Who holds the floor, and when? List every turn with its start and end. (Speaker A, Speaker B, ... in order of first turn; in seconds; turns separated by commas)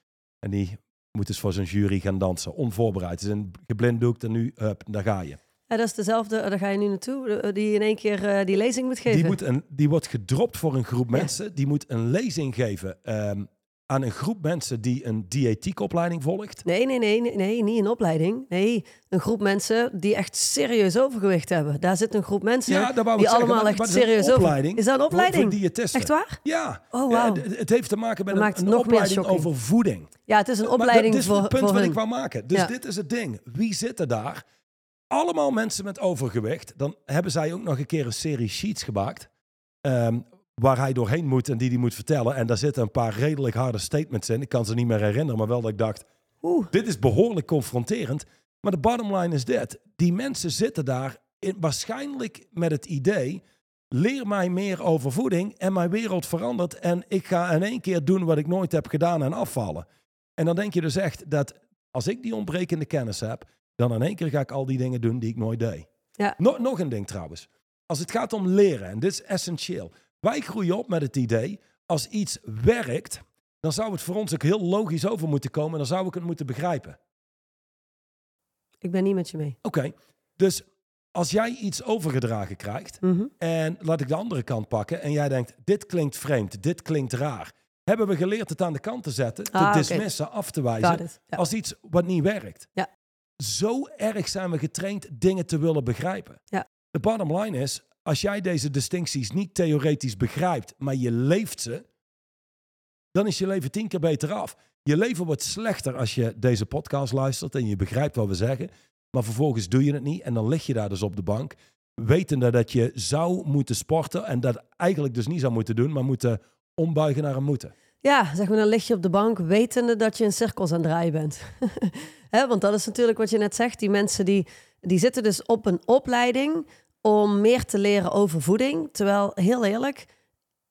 Speaker A: 0.4-5.4, Speaker B: 5.7-9.3, Speaker A: 9.1-16.6, Speaker B: 16.6-26.4, Speaker A: 22.7-30.1, Speaker B: 26.9-27.4, Speaker B: 28.3-29.5, Speaker B: 30.3-32.0, Speaker A: 30.6-34.4, Speaker A: 35.1-39.3, Speaker A: 39.8-46.0, Speaker B: 46.4-46.7, Speaker A: 46.7-59.9, Speaker A: 60.4-65.9, Speaker A: 66.4-77.0, Speaker B: 78.8-79.5, Speaker A: 79.6-92.7, Speaker B: 83.0-83.3, Speaker B: 89.5-90.0, Speaker B: 90.8-91.4, Speaker A: 93.4-101.8, Speaker A: 103.1-117.7, Speaker B: 118.0-130.1